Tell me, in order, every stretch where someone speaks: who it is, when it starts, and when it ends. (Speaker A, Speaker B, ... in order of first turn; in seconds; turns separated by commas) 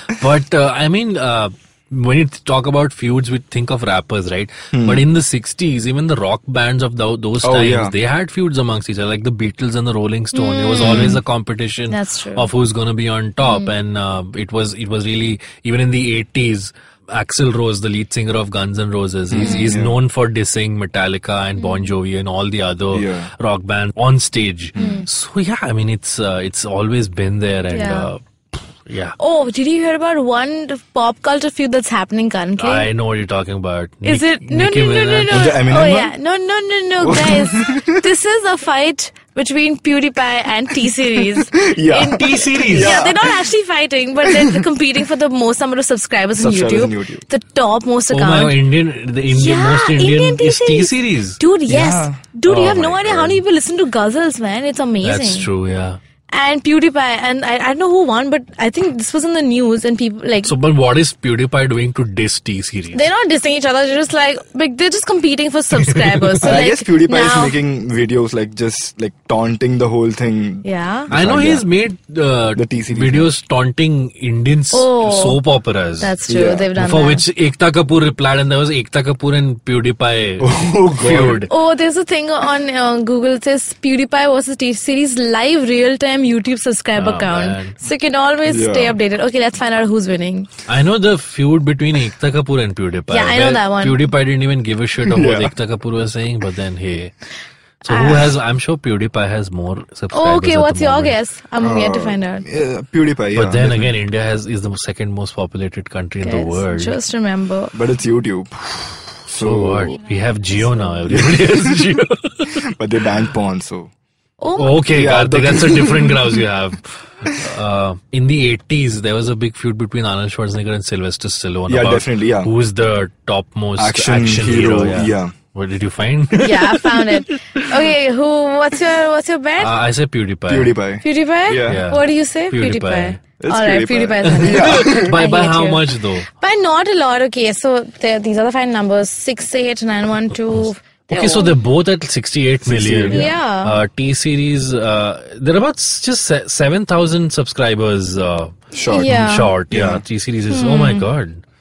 Speaker A: 0.1-29.2, Speaker B: 4.7-5.0, Speaker B: 7.4-7.9, Speaker C: 10.3-11.2, Speaker B: 10.8-11.2, Speaker C: 11.9-12.5, Speaker C: 13.4-13.7, Speaker B: 19.3-19.9, Speaker C: 19.4-19.8, Speaker C: 21.6-21.9, Speaker B: 22.9-23.3, Speaker B: 24.7-25.1, Speaker C: 24.8-25.1, Speaker C: 27.7-28.1, Speaker C: 29.2-32.9, Speaker A: 32.6-35.5, Speaker C: 34.0-48.5, Speaker B: 35.3-36.1, Speaker B: 37.0-38.0, Speaker B: 41.5-43.3, Speaker A: 42.1-43.1, Speaker B: 44.3-44.6, Speaker B: 46.4-47.2, Speaker A: 48.1-51.4, Speaker C: 49.3-55.5, Speaker B: 51.7-52.2, Speaker A: 52.5-53.4, Speaker A: 55.0-56.0, Speaker C: 56.3-60.5, Speaker A: 60.4-63.0, Speaker C: 62.9-67.6, Speaker A: 65.8-66.6, Speaker B: 66.4-71.6, Speaker C: 70.6-71.1, Speaker A: 71.1-76.2, Speaker B: 72.5-73.3, Speaker C: 74.7-75.4, Speaker C: 76.0-77.2, Speaker B: 76.3-76.7, Speaker A: 76.8-81.5, Speaker B: 80.4-81.5, Speaker C: 81.5-90.5, Speaker A: 87.0-87.8, Speaker B: 88.5-89.0, Speaker A: 90.7-97.1, Speaker C: 93.1-94.1, Speaker B: 95.0-95.5, Speaker A: 97.8-101.1, Speaker C: 97.9-98.3, Speaker C: 100.1-102.4, Speaker B: 101.6-103.9, Speaker A: 103.3-107.0, Speaker C: 106.2-107.7, Speaker B: 107.7-108.5, Speaker B: 109.2-110.0, Speaker A: 109.3-112.6, Speaker B: 111.1-111.8, Speaker B: 112.6-113.9, Speaker C: 114.4-114.7, Speaker A: 114.6-127.7, Speaker B: 114.9-116.4, Speaker B: 121.7-122.5, Speaker B: 123.8-125.3, Speaker C: 126.3-129.7, Speaker A: 129.6-130.7, Speaker B: 130.5-131.8, Speaker C: 131.0-141.6, Speaker A: 131.7-133.2, Speaker B: 133.4-135.1, Speaker A: 134.2-136.2, Speaker A: 140.6-151.4, Speaker B: 142.6-143.3, Speaker C: 143.1-143.7, Speaker B: 148.7-149.2, Speaker C: 148.8-149.5, Speaker B: 149.7-150.0, Speaker C: 150.5-151.1